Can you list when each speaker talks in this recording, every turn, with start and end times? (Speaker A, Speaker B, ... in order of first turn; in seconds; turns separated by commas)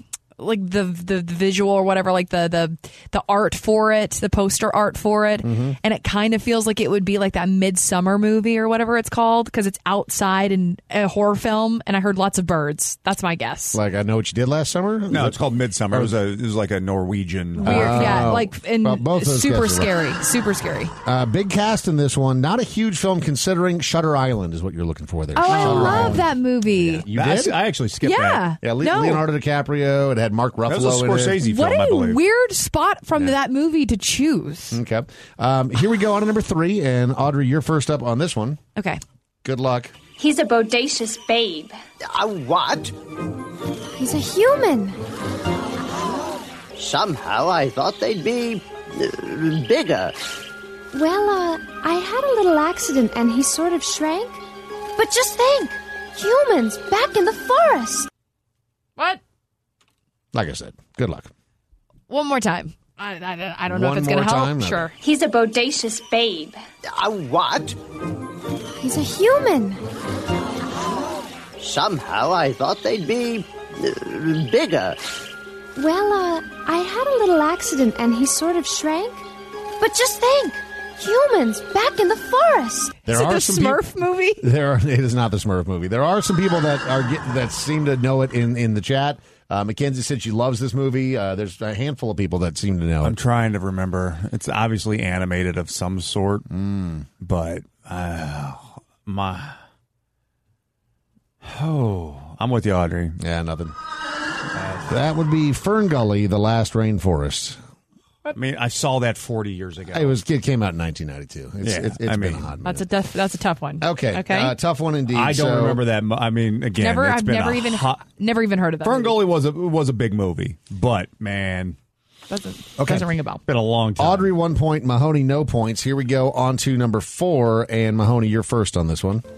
Speaker A: 0.4-13.8, Speaker B: 5.4-5.8, Speaker B: 13.7-15.4, Speaker C: 15.1-18.3, Speaker A: 17.6-20.9, Speaker B: 17.6-19.9, Speaker B: 21.1-27.6, Speaker A: 25.4-27.0, Speaker C: 25.5-26.3, Speaker C: 27.0-28.5, Speaker A: 28.0-29.2, Speaker B: 28.6-31.4, Speaker C: 30.7-32.2, Speaker A: 31.4-34.8, Speaker B: 34.7-38.6, Speaker A: 38.8-39.0, Speaker B: 39.4-39.9, Speaker D: 40.2-41.7, Speaker E: 42.1-42.9, Speaker F: 44.0-45.0, Speaker E: 46.8-50.1, Speaker F: 50.9-54.4, Speaker F: 55.0-58.1, Speaker B: 60.3-61.3, Speaker A: 62.1-64.9, Speaker B: 63.7-64.9, Speaker D: 65.0-66.6, Speaker E: 66.9-67.8, Speaker F: 68.8-69.8, Speaker E: 71.6-75.0, Speaker F: 75.8-79.2, Speaker F: 79.8-83.0, Speaker B: 83.0-83.8, Speaker A: 83.1-84.4, Speaker B: 84.4-93.2, Speaker C: 93.0-96.4, Speaker B: 96.5-97.1, Speaker C: 97.2-99.6, Speaker C: 101.4-103.2, Speaker B: 103.2-103.7, Speaker C: 104.5-104.8, Speaker B: 104.9-107.6, Speaker C: 108.3-110.2, Speaker B: 109.9-112.8, Speaker C: 111.6-112.5, Speaker A: 112.6-114.5, Speaker B: 113.8-115.8, Speaker C: 115.1-118.0, Speaker A: 116.8-119.2, Speaker C: 118.8-121.8, Speaker A: 122.3-123.4, Speaker C: 122.8-124.3, Speaker B: 124.0-129.2